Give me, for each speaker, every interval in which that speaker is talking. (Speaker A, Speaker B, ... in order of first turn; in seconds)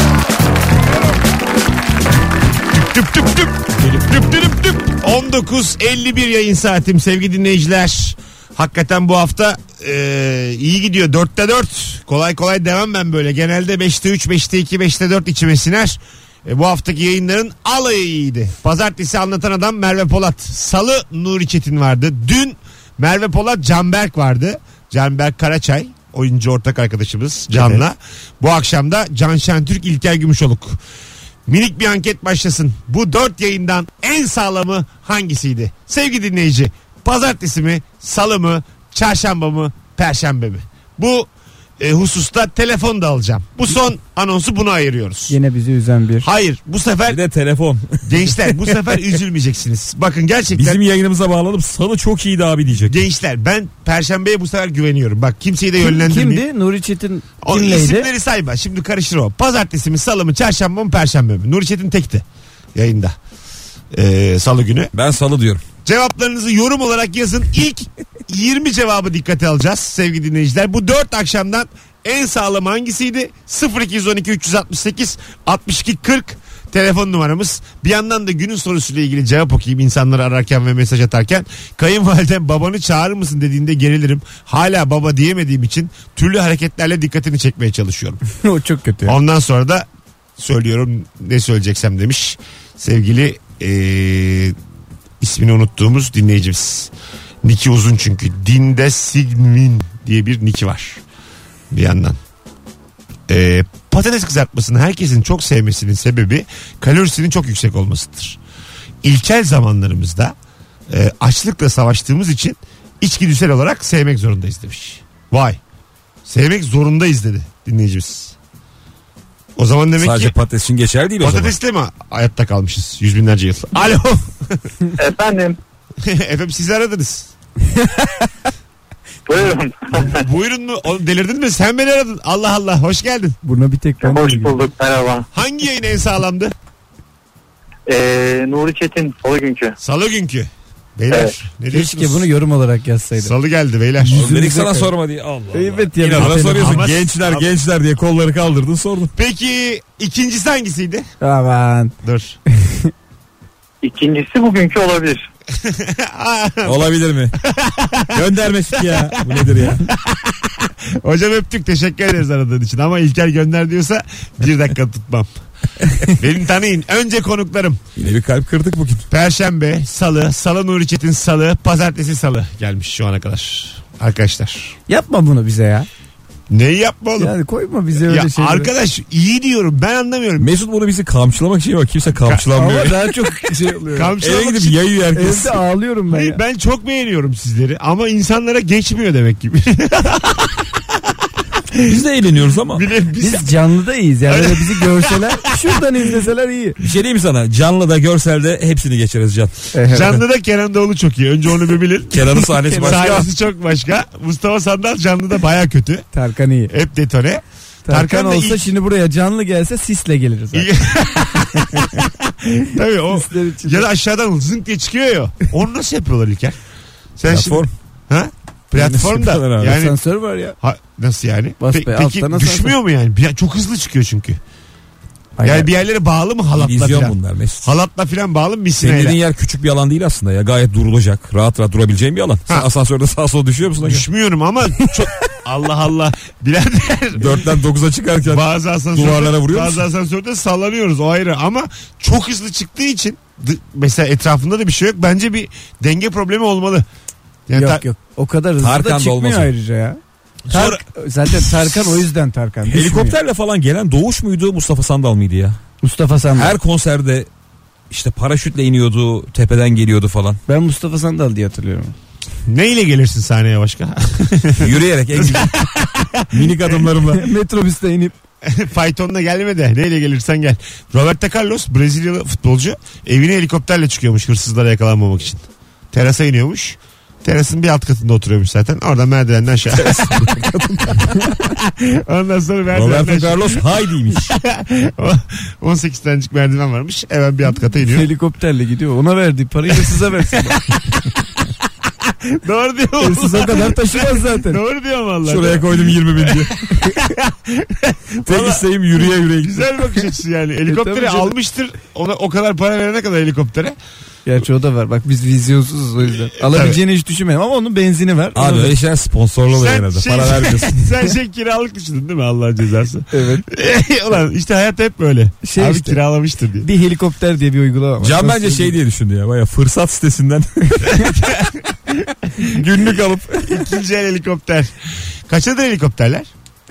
Speaker A: 2.7-30.8, 31.5-45.4, 46.2-47.2, 48.1-50.8, 52.9-56.4, 57.4-63.2, 63.9-64.9, 65.8-88.2, 89.0-94.6, 95.2-96.9, 97.4-101.0, 101.7-102.2, 103.3-108.4, 109.0-110.3, 110.9-115.6, 116.2-118.3, 119.6-120.3, 121.2-124.6, 126.0-127.3, 130.0-133.4, 135.3-136.5, 139.8-142.3, 143.2-144.2, 146.4-147.5, 149.2-151.1, 152.0-152.4, 155.5-156.9, 157.4-158.2, 158.8-165.3, 166.0-167.8, 169.1-174.8, 176.5-177.3, 178.1-180.5, 183.9-184.8, 186.1-191.0, 191.7-192.0, 192.7-193.5, 194.3-195.4, 199.9-206.1, 206.7-208.7, 210.5-216.6, 217.2-220.0, 220.6-224.4, 225.4-229.2, 233.8-237.5, 238.2-246.9, 247.5-247.8, 250.5-250.8, 262.5-266.9, 268.4-280.5, 281.4-288.1, 289.8-291.4, 292.0-303.8, 306.4-306.8, 309.5-316.7, 321.0-322.6, 323.5-324.7, 325.3-326.3
Speaker B: 45.3-46.3, 55.8-58.1, 88.4-89.2, 127.8-128.2, 133.4-134.7, 141.7-143.3, 144.0-144.9, 145.5-146.9, 151.2-151.9, 152.6-152.9, 174.9-175.9, 177.2-178.7, 182.6-184.2, 185.2-186.4, 193.2-196.8, 199.7-200.2, 202.6-203.3, 206.1-206.7, 207.9-210.7, 213.1-213.9, 218.8-220.6, 221.6-222.8, 225.4-225.7, 247.5-250.0, 250.5-253.2, 255.8-256.6, 260.5-261.9, 267.1-268.1, 287.8-290.6, 293.0-294.6, 300.7-301.3, 304.3-308.8, 313.1-313.4, 315.4-316.1, 316.6-318.8
Speaker C: 47.1-48.7, 50.5-53.0, 64.9-65.6, 120.0-121.5, 144.1-149.1, 156.7-157.3, 158.1-159.8, 168.0-169.1, 180.4-183.0, 184.2-185.6, 191.8-192.8, 196.8-199.5, 202.1-203.2, 217.3-217.7, 218.8-219.5, 226.6-227.7, 228.8-234.0, 237.2-239.8, 248.6-249.5, 252.6-255.6, 256.3-257.3, 257.9-260.4, 264.6-265.7, 266.3-267.3, 279.8-281.3, 282.7-284.3, 295.3-296.6, 298.3-299.7, 308.4-310.9, 318.0-321.3, 322.6-323.5
Speaker D: 125.0-125.6, 129.3-130.2, 134.0-135.3, 137.9-139.8, 141.1-141.4, 153.8-155.2